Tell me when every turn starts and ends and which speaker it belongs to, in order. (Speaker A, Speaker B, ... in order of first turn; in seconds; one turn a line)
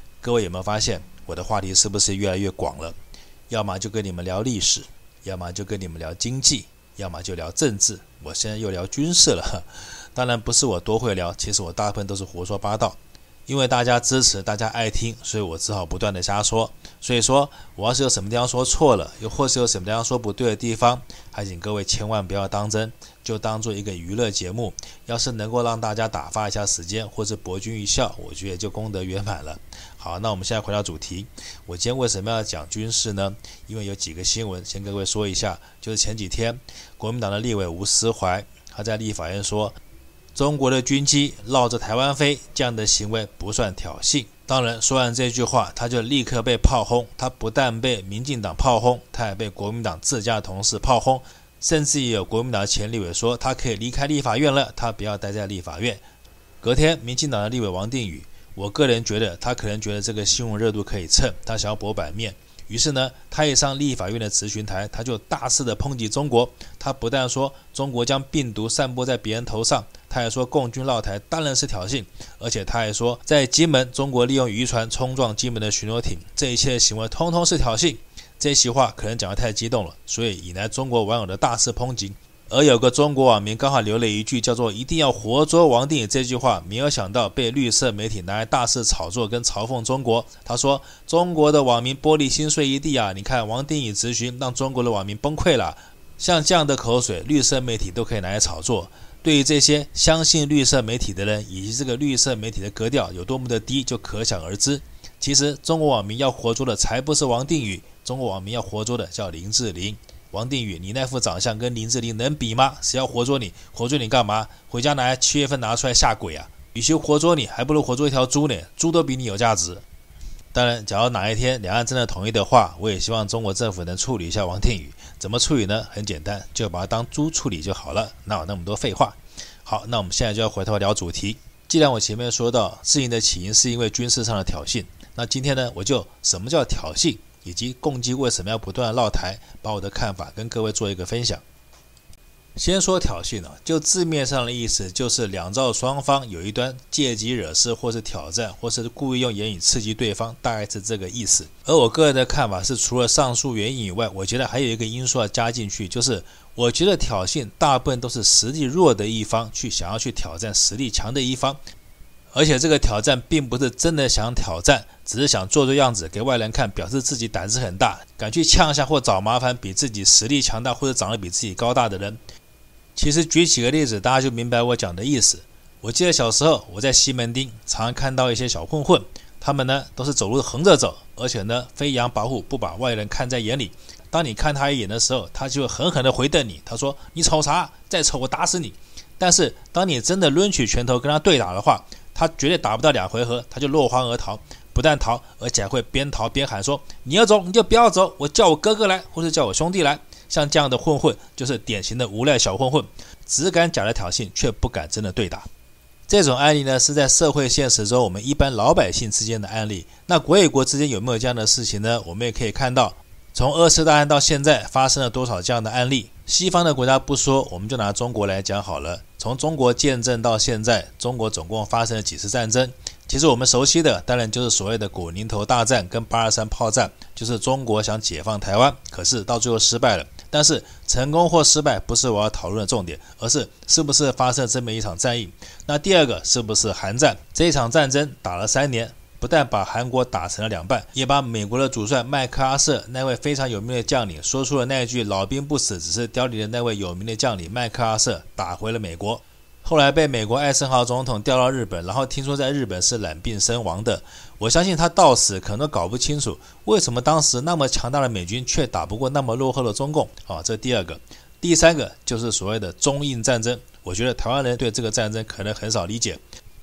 Speaker A: 0.2-3.0
Speaker A: 3.5-39.8
Speaker A: 40.3-56.0
Speaker A: 56.6-119.8
Speaker A: 120.5-141.4
Speaker A: 142.6-161.6
Speaker A: 162.3-172.2
Speaker A: 172.9-205.5
Speaker A: 206.1-266.2